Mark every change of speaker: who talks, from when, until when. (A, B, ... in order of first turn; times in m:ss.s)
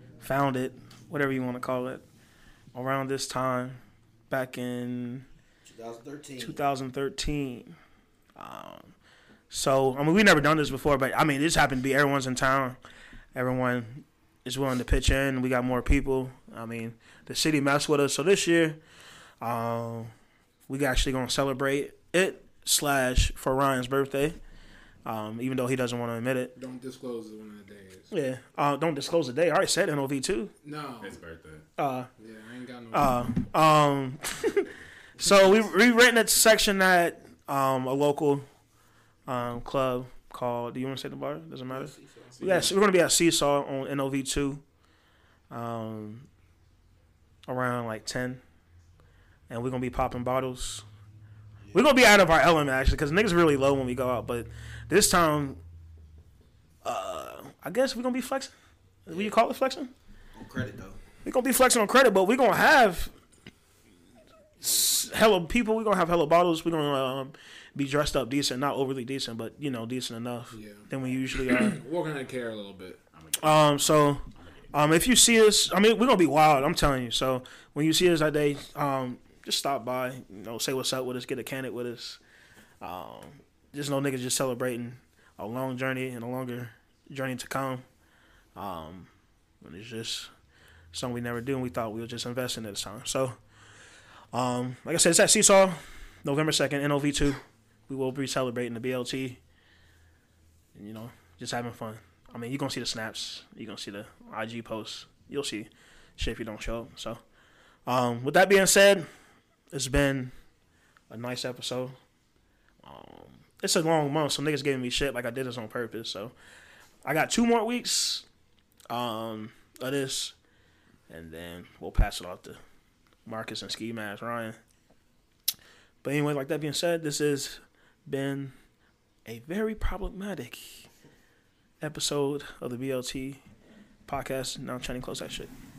0:00.2-0:02.0 A
0:02.7-0:05.2 A
0:05.6-0:06.6 B
0:06.4-0:07.8 A
0:08.4-0:08.9 A
0:09.5-0:12.8 A
0:13.3-0:18.8 A
0:19.4-0:20.1 A
0:20.7-0:24.4 A
0:25.0-0:26.5 A
0:26.6-0:28.1 C
0:28.1-0:30.5 A
0:30.6-0:31.2 C
0:31.0-0:31.6 D
0:31.8-0:32.1 A
0:32.2-0:33.2 C
0:32.9-0:38.4 A
0:39.3-0:44.6 A
0:41.7-0:42.6 B
0:42.4-0:42.8 D
0:45.5-0:46.3 A
0:47.5-0:48.4 A
0:49.5-0:50.8 A
0:51.7-0:55.6 A
0:56.8-0:58.5 A
0:59.0-0:59.9 A
1:00.3-1:01.0 B
1:01.2-1:03.1 A
1:04.6-1:11.8 A
1:10.5-1:13.0 C
1:13.1-1:14.9 D
1:13.4-1:22.2 A
1:22.8-1:27.8 A
1:28.6-1:29.1 A
1:29.6-1:30.3 A
1:30.9-1:33.4 A
1:34.3-1:39.4 A
1:40.7-1:47.2 A
1:47.9-1:49.1 A
1:49.7-1:50.3 A
1:51.1-1:51.9 A
1:52.8-1:56.3 A
1:57.0-1:58.2 A
1:58.9-2:00.3 A
2:01.1-2:02.6 A
2:03.2-2:04.6 A
2:06.0-2:08.5 A
2:09.2-2:10.8 A
2:11.8-2:13.4 A
2:14.1-2:15.5 A